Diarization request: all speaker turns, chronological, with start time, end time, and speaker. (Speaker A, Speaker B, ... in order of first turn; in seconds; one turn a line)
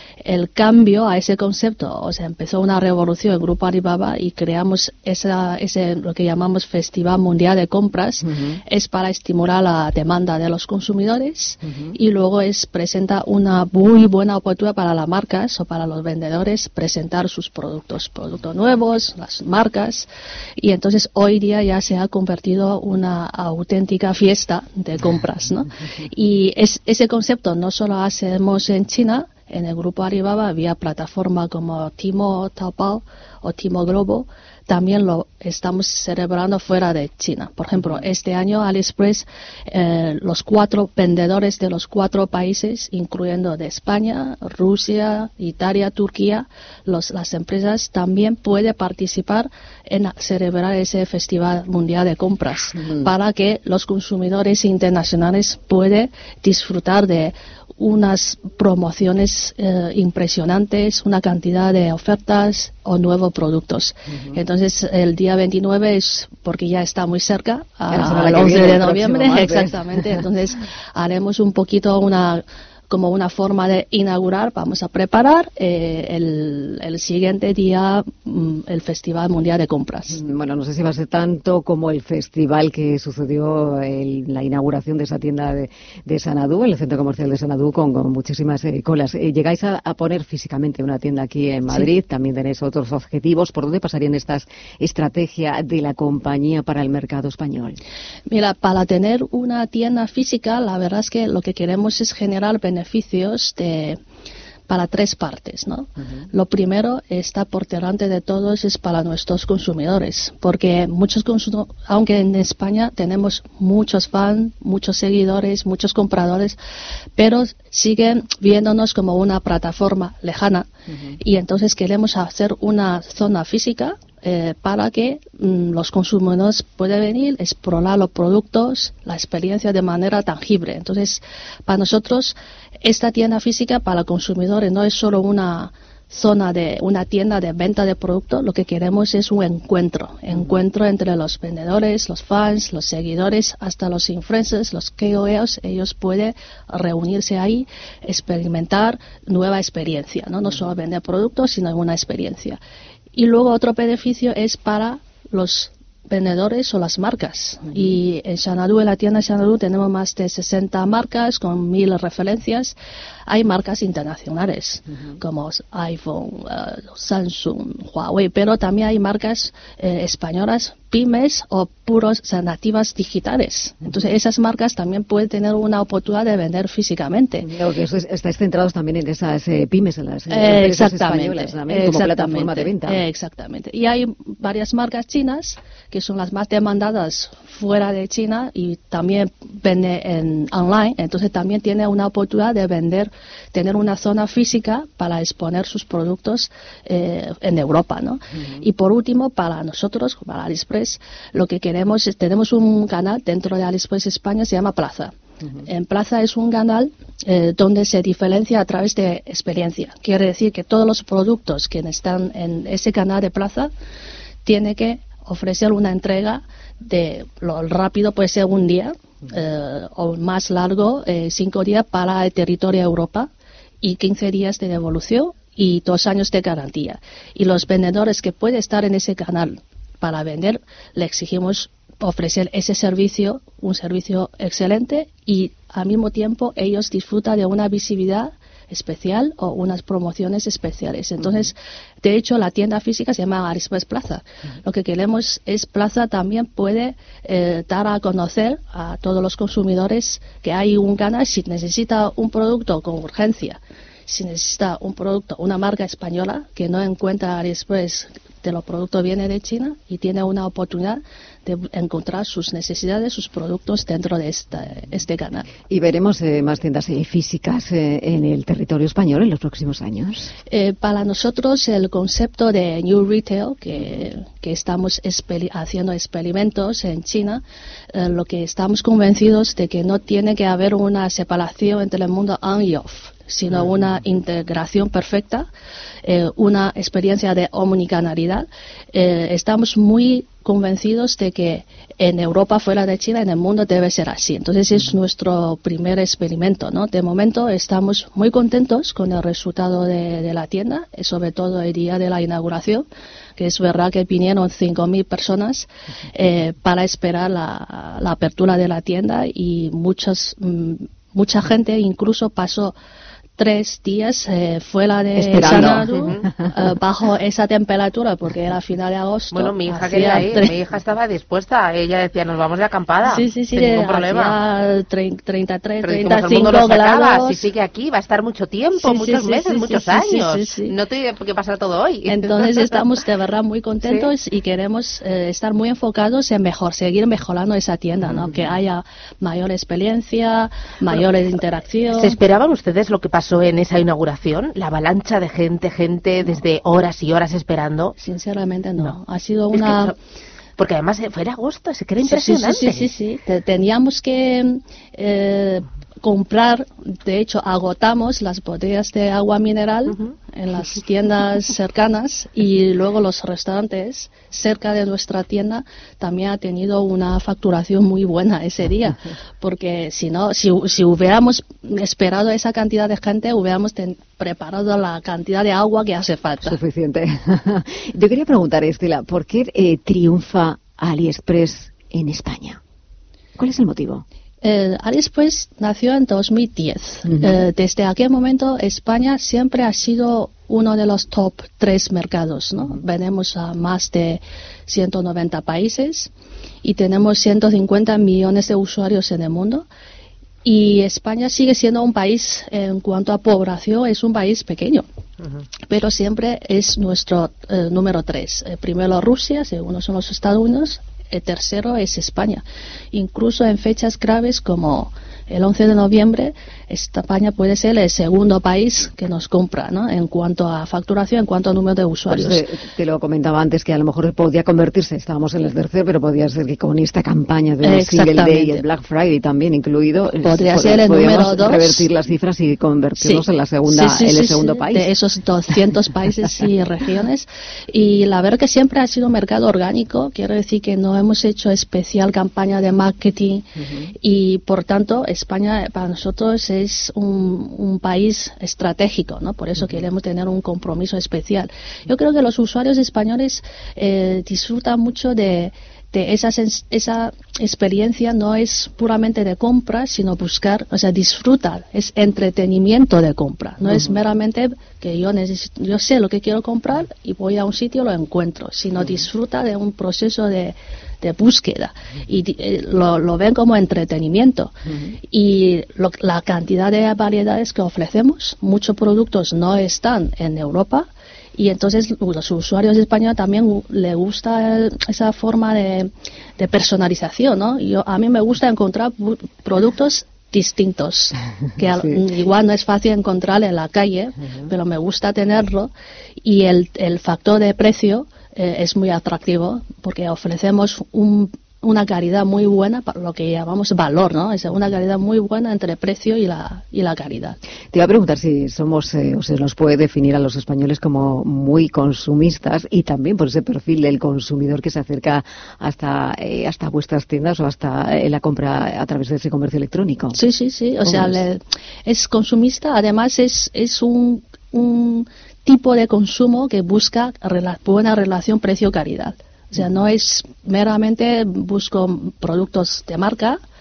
Speaker A: 0.2-80.2
Speaker B: 8.2-8.6
Speaker B: 11.6-11.9
Speaker B: 67.9-70.2
Speaker B: 80.1-97.8
Speaker A: 98.3-104.0
Speaker A: 104.7-116.6
Speaker A: 117.2-152.6
Speaker A: 153.2-177.5
Speaker B: 177.4-183.0
Speaker A: 180.3-213.7
Speaker A: 214.4-223.3
Speaker A: 223.8-265.5
Speaker B: 265.7-270.3
Speaker A: 270.5-285.5
Speaker A: 286.0-302.9
Speaker A: 303.4-312.8
Speaker A: 313.4-320.6
Speaker B: 315.1-316.5
Speaker C: 315.9-316.3
Speaker C: 319.3-324.4
Speaker A: 323.1-327.4
Speaker C: 325.8-332.8
Speaker A: 328.8-330.8
Speaker A: 332.1-342.2
Speaker C: 333.8-334.1
Speaker C: 341.9-347.9
Speaker A: 348.0-349.9
Speaker C: 349.5-350.0
Speaker C: 350.6-352.9
Speaker A: 352.0-376.6
Speaker B: 376.4-382.6
Speaker B: 383.4-384.0
Speaker A: 384.4-396.1
Speaker A: 396.6-399.7
Speaker A: 400.4-404.9
Speaker A: 405.7-422.5
Speaker B: 422.1-434.9
Speaker A: 427.6-428.6
Speaker A: 430.2-431.9
Speaker A: 433.0-495.7
Speaker A: 496.2-507.4
Speaker B: 507.7-520.2
Speaker A: 520.1-533.4
Speaker B: 520.8-521.2